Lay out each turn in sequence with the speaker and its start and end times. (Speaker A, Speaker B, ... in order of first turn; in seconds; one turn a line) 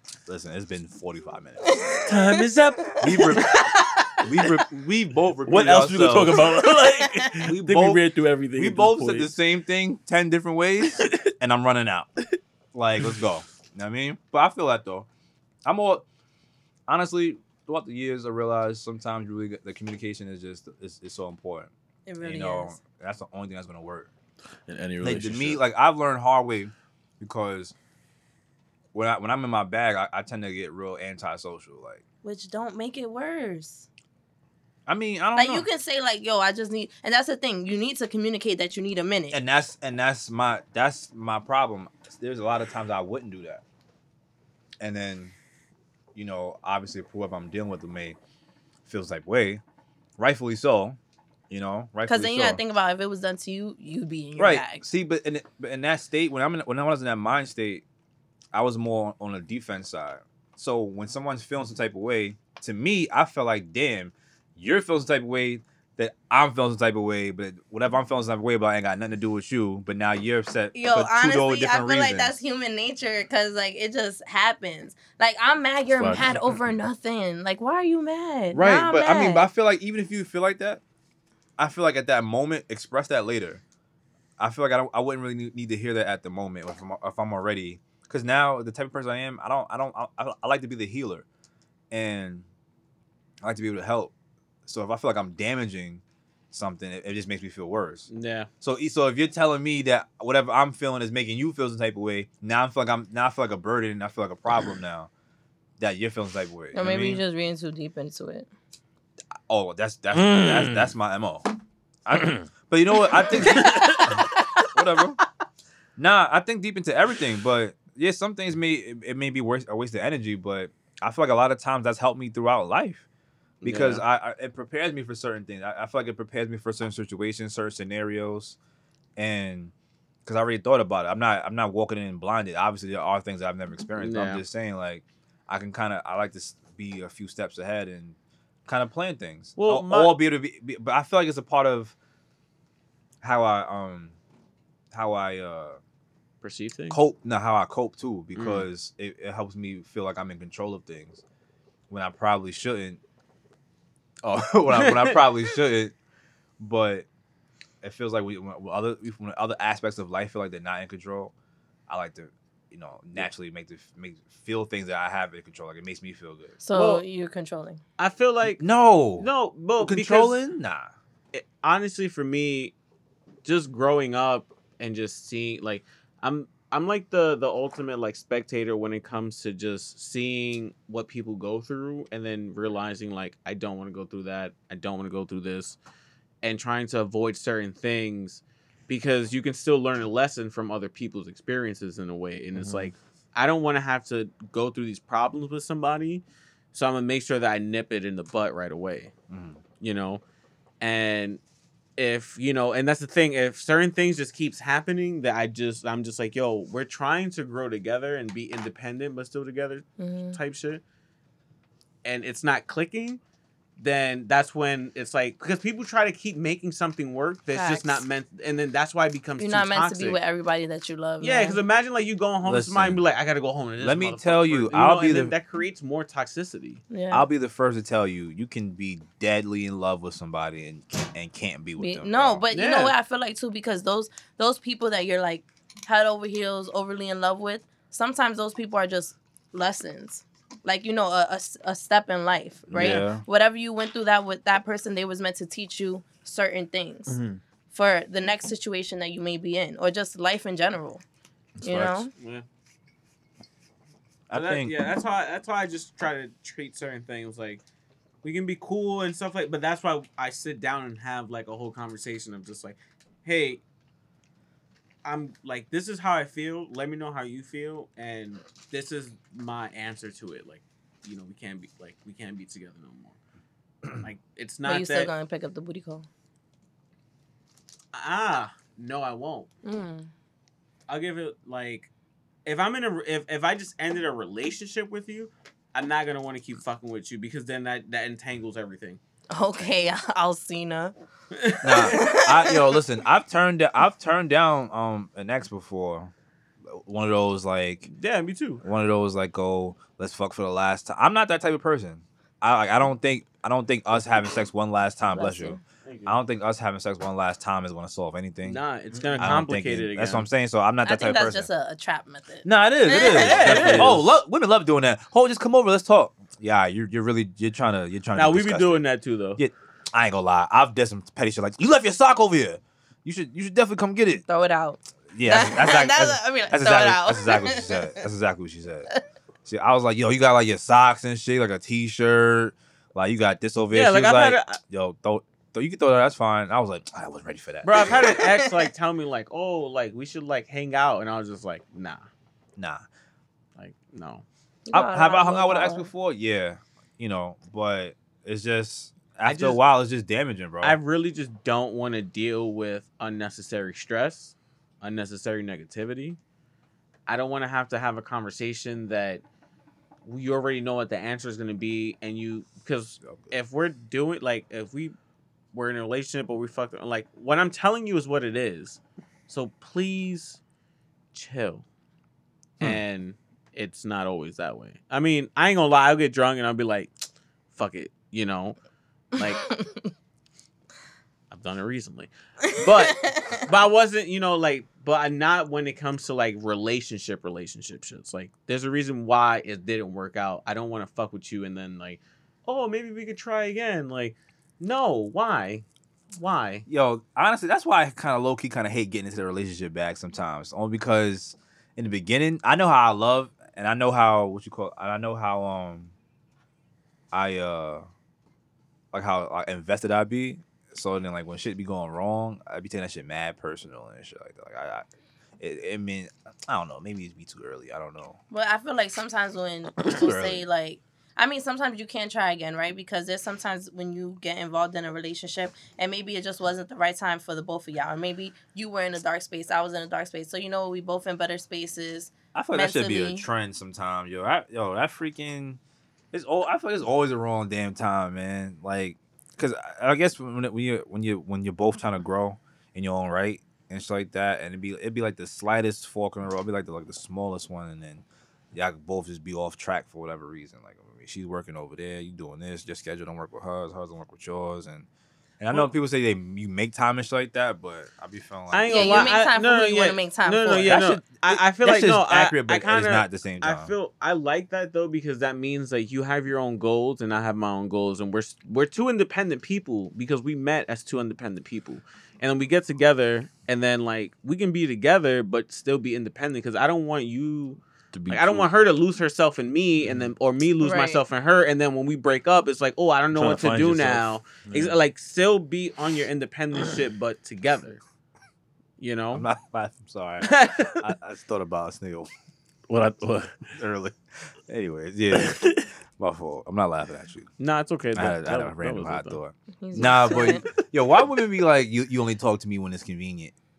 Speaker A: 0.2-1.8
Speaker B: 1.6-4.2
Speaker C: 2.0-3.0
Speaker A: 3.0-3.6
Speaker A: 4.2-6.4
Speaker C: 5.5-9.3
Speaker B: 6.4-7.3
Speaker A: 7.4-8.0
Speaker A: 8.5-12.1
Speaker C: 11.0-11.3
Speaker A: 12.7-15.1
Speaker A: 15.7-16.0
Speaker A: 16.9-21.7
Speaker B: 22.1-22.8
Speaker A: 22.2-24.1
Speaker C: 24.7-25.6
Speaker A: 25.0-27.7
Speaker A: 28.9-32.0
Speaker B: 32.2-33.9
Speaker A: 34.9-35.7
Speaker B: 35.3-39.4
Speaker A: 39.3-43.6
Speaker A: 44.8-45.3
Speaker A: 46.1-48.2
Speaker A: 48.8-49.6
Speaker A: 50.2-51.0
Speaker A: 51.5-52.6
Speaker B: 52.1-54.8
Speaker A: 54.4-57.8
Speaker A: 58.5-72.4
Speaker B: 70.7-79.5
Speaker C: 75.9-76.4
Speaker A: 78.5-80.8
Speaker A: 81.6-83.6
Speaker A: 84.4-91.2
Speaker A: 91.9-92.5
Speaker A: 93.4-94.1
Speaker A: 94.7-98.1
Speaker D: 98.1-98.5
Speaker A: 98.6-105.1
Speaker A: 105.8-107.2
Speaker B: 106.7-108.5
Speaker A: 109.5-111.5
Speaker C: 110.1-110.9
Speaker A: 112.0-115.2
Speaker C: 112.1-112.5
Speaker C: 113.2-114.2
Speaker A: 116.0-123.0
Speaker A: 123.6-128.6
Speaker D: 123.6-124.0
Speaker A: 129.2-129.7
Speaker A: 130.2-138.2
Speaker D: 134.0-134.4
Speaker A: 138.7-141.9
Speaker D: 139.6-140.2
Speaker A: 143.2-144.1
Speaker A: 144.9-145.8
Speaker D: 146.4-147.0
Speaker A: 146.9-151.2
Speaker D: 148.3-148.7
Speaker A: 151.9-153.0
Speaker A: 154.2-155.9
Speaker D: 154.7-155.3
Speaker A: 156.6-157.1
Speaker A: 157.8-161.3
Speaker A: 161.9-166.6
Speaker B: 166.6-167.8
Speaker D: 166.7-167.0
Speaker D: 168.0-168.7
Speaker A: 168.6-170.9
Speaker D: 169.2-170.4
Speaker D: 171.3-172.7
Speaker D: 173.4-185.8
Speaker D: 186.4-199.1
Speaker A: 199.3-199.6
Speaker D: 199.8-200.2
Speaker D: 200.8-201.4
Speaker D: 202.0-210.8
Speaker B: 210.0-210.4
Speaker D: 212.0-213.2
Speaker D: 213.8-220.2
Speaker B: 217.5-218.0
Speaker B: 219.4-221.6
Speaker D: 221.2-226.8
Speaker A: 222.4-223.0
Speaker A: 223.8-225.3
Speaker B: 226.9-227.3
Speaker A: 227.1-232.8
Speaker B: 231.8-247.2
Speaker D: 232.5-232.9
Speaker A: 242.7-243.2
Speaker C: 247.1-247.4
Speaker B: 247.7-251.0
Speaker B: 251.6-252.1
Speaker C: 251.6-251.9
Speaker D: 252.2-252.4
Speaker A: 254.3-254.8
Speaker D: 254.3-257.6
Speaker D: 258.2-263.6
Speaker D: 265.0-273.2
Speaker D: 274.0-275.1
Speaker B: 274.6-276.1
Speaker D: 277.9-279.5
Speaker B: 279.6-280.1
Speaker D: 280.9-281.9
Speaker D: 282.4-289.0
Speaker B: 289.3-290.9
Speaker D: 291.3-291.9
Speaker A: 291.6-296.1
Speaker B: 291.7-292.7
Speaker A: 296.7-297.9
Speaker D: 297.9-298.6
Speaker A: 298.6-308.6
Speaker B: 305.1-305.6
Speaker D: 305.8-306.2
Speaker D: 308.4-310.3
Speaker C: 308.9-309.3
Speaker A: 309.2-311.5
Speaker B: 310.8-313.8
Speaker A: 312.4-318.8
Speaker D: 313.1-314.1
Speaker C: 313.5-313.9
Speaker D: 318.1-319.4
Speaker A: 319.4-324.2
Speaker B: 324.3-328.0
Speaker A: 325.1-328.9
Speaker A: 329.4-338.2
Speaker D: 333.7-334.6
Speaker D: 337.6-342.1
Speaker B: 338.1-338.6
Speaker A: 342.6-342.8
Speaker D: 343.6-344.2
Speaker B: 344.7-345.9
Speaker A: 344.7-350.8
Speaker D: 349.2-349.6
Speaker D: 350.6-356.2
Speaker D: 357.1-359.2
Speaker D: 360.0-364.9
Speaker A: 363.0-363.3
Speaker D: 365.5-370.4
Speaker D: 371.1-371.6
Speaker D: 372.6-376.9
Speaker D: 377.5-378.6
Speaker D: 379.1-379.4
Speaker B: 379.4-379.9
Speaker D: 381.3-396.6
Speaker B: 382.4-383.4
Speaker A: 396.7-405.9
Speaker A: 407.1-407.9
Speaker A: 408.9-414.8
Speaker A: 415.4-418.2
Speaker B: 418.3-433.2
Speaker A: 419.9-420.4
Speaker A: 432.3-435.6
Speaker A: 436.1-448.0
Speaker A: 448.5-454.9
Speaker A: 455.4-459.2
Speaker D: 458.5-487.8
Speaker B: 458.6-460.8
Speaker A: 460.6-463.7
Speaker C: 477.9-478.5
Speaker B: 480.6-481.0
Speaker C: 483.1-484.8
Speaker D: 488.8-489.3
Speaker A: 489.1-492.1
Speaker D: 490.2-490.8
Speaker C: 492.7-493.3
Speaker A: 493.5-497.3
Speaker C: 495.1-495.7
Speaker D: 497.4-499.2
Speaker A: 497.9-503.3
Speaker B: 499.6-500.4